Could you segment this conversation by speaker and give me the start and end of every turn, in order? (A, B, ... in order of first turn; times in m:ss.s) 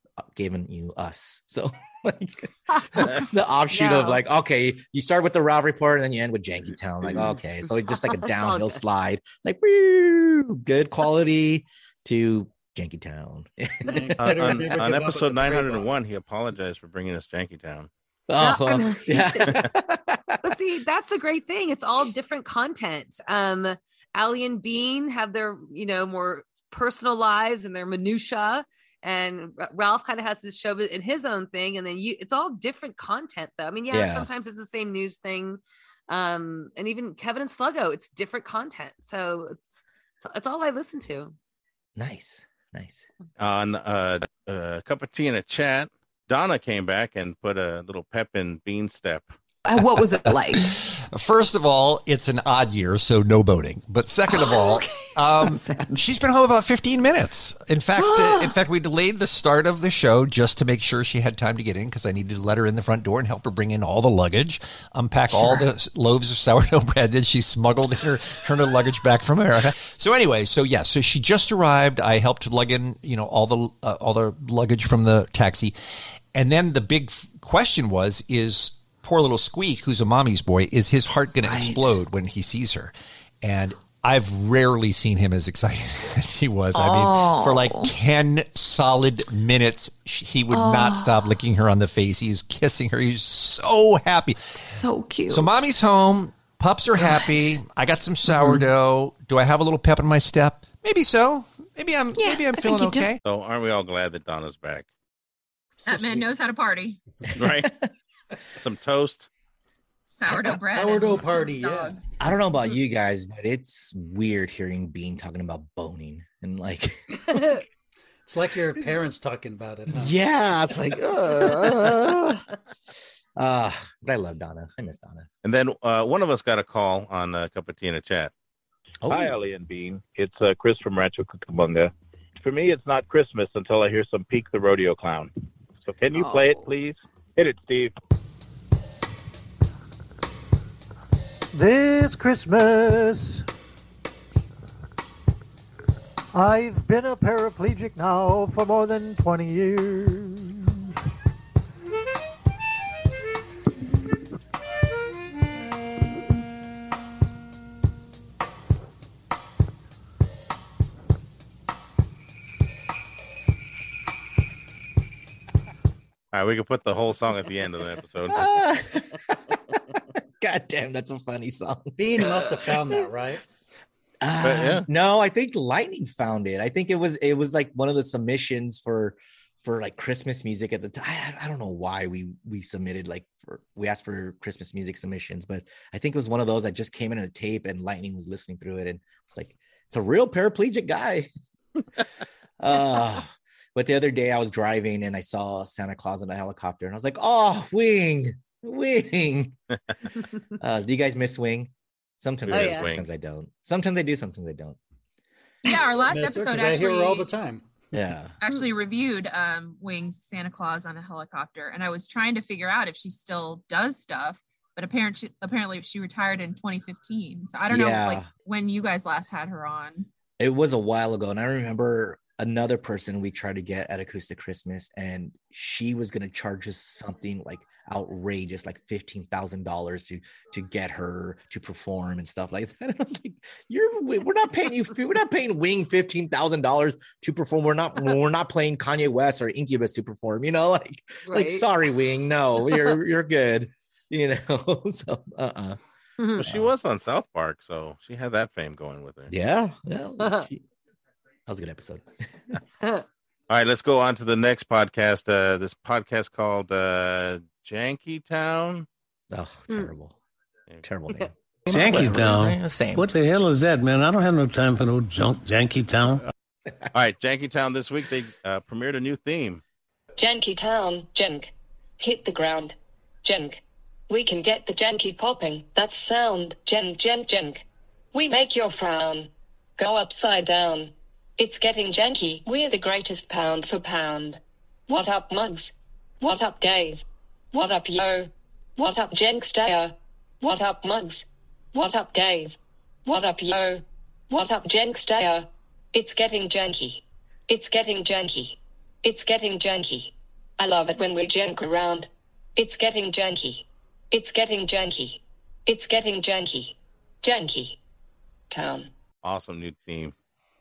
0:00.3-0:14.5 A
0:03.7-0:04.2 B
0:07.1-0:08.8 B
0:13.9-0:14.1 B
0:13.9-0:15.9 C
0:14.2-0:17.9 D
0:18.3-0:20.4 A
0:18.4-0:19.6 B
0:20.4-0:41.3 B
0:33.9-0:34.3 A
0:42.0-0:43.0 A
0:43.4-0:49.3 D
0:49.6-0:50.8 E
0:51.1-1:15.7 F
0:54.3-0:56.0 E
0:57.9-0:58.6 E
1:05.3-1:05.7 E
1:16.3-1:34.6 F
1:21.4-1:22.0 E
1:26.7-1:27.9 E
1:30.5-1:31.3 E
1:34.6-1:35.6 E
1:35.3-1:43.2 F
1:37.0-1:37.5 E
1:38.3-1:38.6 E
1:42.1-1:43.1 E
1:43.2-1:44.9 D
1:45.8-1:47.0 G
1:45.9-1:46.2 C
1:47.4-1:47.7 D
1:48.6-1:49.3 D
1:50.2-1:52.1 G
1:50.7-1:52.0 C
1:52.2-1:57.6 A
1:57.3-1:57.6 B
1:58.2-2:00.2 C
1:59.9-2:02.5 A
2:03.4-2:05.3 A
2:05.4-2:08.3 D
2:09.0-2:09.4 A
2:09.1-2:15.3 H
2:15.8-2:17.9 H
2:21.5-2:23.4 I
2:26.3-2:30.8 I
2:46.3-2:48.6 D
2:48.3-2:52.4 A
2:52.0-2:53.4 C
2:54.2-3:11.3 A
2:54.4-2:54.9 D
3:12.6-3:19.5 A
3:20.6-3:24.8 A
3:22.4-3:23.0 D
3:22.5-3:22.9 B
3:25.6-3:27.3 G
3:25.7-3:27.6 C
3:27.9-3:28.4 A
3:28.4-3:40.1 G
3:37.7-3:38.3 A
3:40.4-4:05.8 A
4:01.3-4:01.6 B
4:06.2-4:06.4 B
4:06.4-4:09.3 D
4:09.3-4:10.6 A
4:11.5-4:12.6 A
4:13.5-4:18.8 D
4:19.3-4:20.2 A
4:20.8-4:23.1 A
4:21.7-4:26.2 J
4:26.9-4:29.6 D
4:30.2-4:37.6 K
4:38.1-4:47.0 K
4:47.5-4:52.5 K
4:53.0-5:07.8 K
5:08.5-5:08.9 K
5:09.2-5:10.1 D